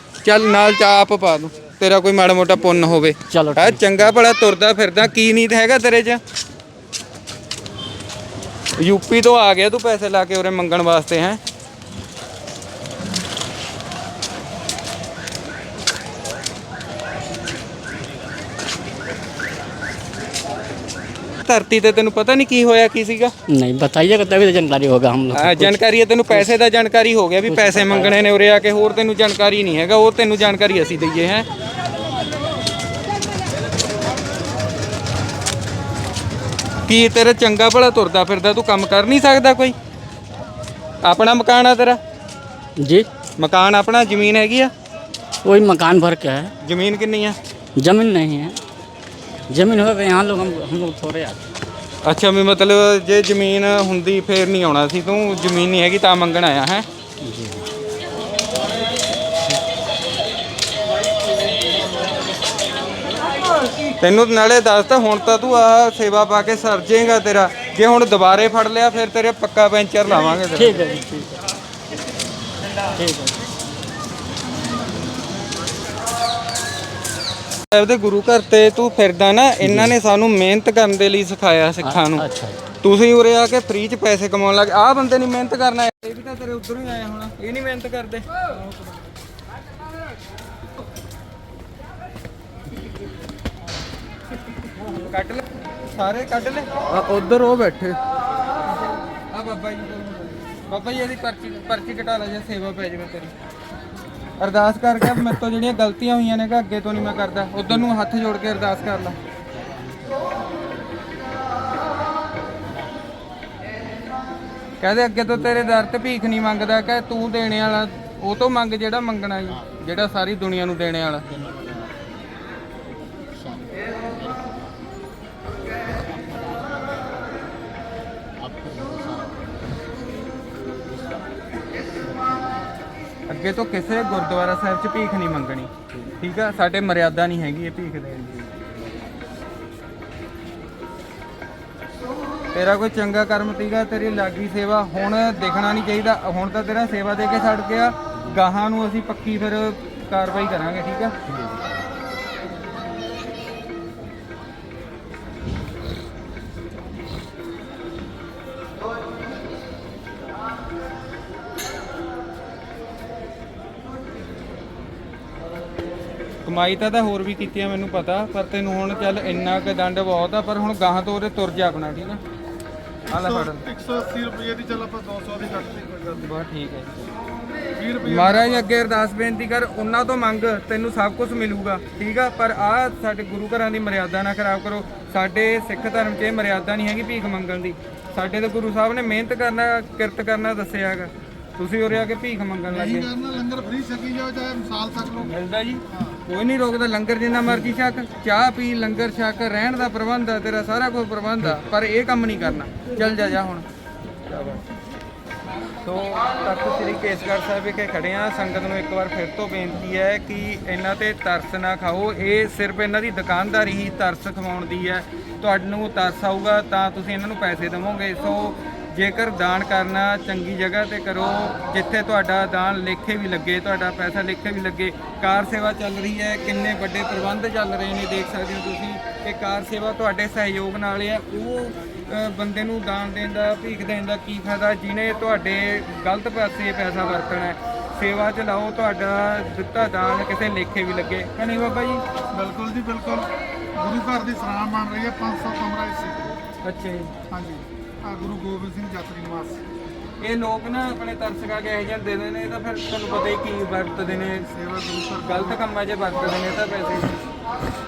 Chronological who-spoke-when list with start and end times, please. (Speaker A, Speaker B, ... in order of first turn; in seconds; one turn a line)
Speaker A: 0.2-6.2
Speaker B: 3.3-4.2
Speaker A: 8.8-11.4
Speaker A: 21.4-23.3
Speaker B: 23.5-26.5
Speaker A: 25.3-31.4
Speaker B: 27.4-28.1
Speaker A: 36.9-39.7
Speaker A: 41.0-42.0
Speaker B: 42.8-43.1
Speaker A: 43.4-44.7
Speaker B: 45.4-46.5
Speaker A: 46.6-47.4
Speaker B: 47.8-48.6
Speaker B: 49.5-51.4
Speaker A: 52.0-56.9
Speaker B: 57.2-57.6
Speaker A: 64.0-70.8
Speaker B: 70.5-71.4
Speaker B: 72.9-73.4
Speaker A: 77.7-82.2
Speaker B: 79.6-79.9
Speaker B: 81.8-82.6
Speaker A: 82.8-88.2
Speaker A: 95.0-98.0
Speaker A: 99.3-103.3
Speaker A: 104.4-109.2
Speaker A: 114.8-121.2
Speaker B: 121.5-121.8
Speaker B: 123.5-124.6
Speaker B: 126.2-127.0
Speaker B: 128.5-129.4
Speaker B: 132.1-132.6
Speaker A: 133.3-138.5
Speaker A: 142.5-151.1
Speaker B: 151.4-151.7
Speaker A: 166.4-172.2
Speaker A: 173.1-173.6
Speaker C: 173.1-176.2
Speaker A: 176.2-177.0
Speaker C: 177.8-178.7
Speaker A: 178.0-193.1
Speaker C: 192.7-195.3
Speaker A: 195.2-203.6
Speaker C: 195.9-196.2
Speaker A: 204.3-204.6
Speaker A: 205.8-242.0
Speaker C: 242.3-246.3
Speaker A: 246.6-247.1
Speaker C: 247.3-249.6
Speaker A: 250.2-254.5
Speaker C: 254.5-255.6
Speaker A: 255.2-257.2